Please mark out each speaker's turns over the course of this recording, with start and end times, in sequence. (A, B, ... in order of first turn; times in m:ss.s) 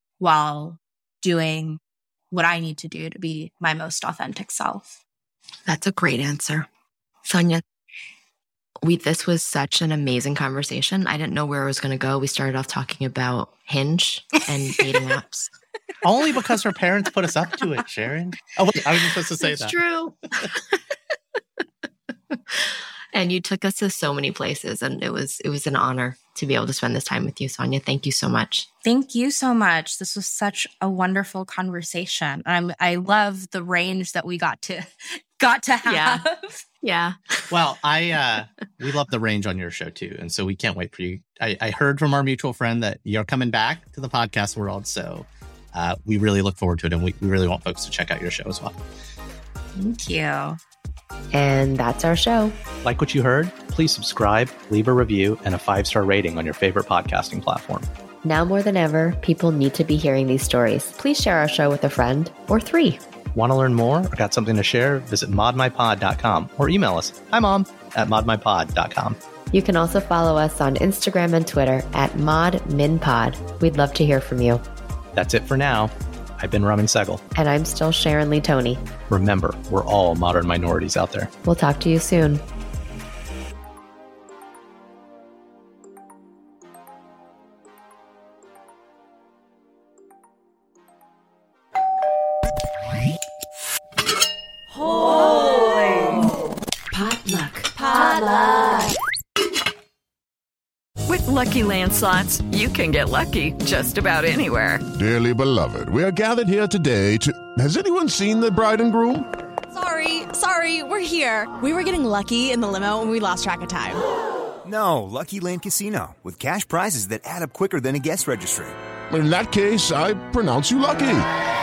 0:00.2-0:05.0 A
0:05.6-0:06.7 B
0:07.2-0:07.6 B
0:08.8-0:15.5 B
0:16.0-0:19.8 C
0:19.4-0:20.6 B
0:22.3-0:28.7 B
0:28.8-0:36.6 A
0:35.8-0:36.2 B
0:36.8-0:37.6 B
0:37.5-0:48.7 C
0:49.8-0:50.6 A
0:51.3-0:52.6 D
0:52.8-0:57.9 C
0:58.2-1:03.0 D
1:03.3-1:09.2 C
1:09.5-1:14.6 D
1:15.2-1:17.2 C
1:17.3-1:18.8 D
1:19.1-1:21.3 C
1:21.4-1:22.4 D
1:36.9-1:38.9 E
1:41.1-1:44.8 F
1:44.9-1:49.3 G
1:49.7-1:54.0 E
1:54.6-1:58.8 H
1:59.1-2:01.3 G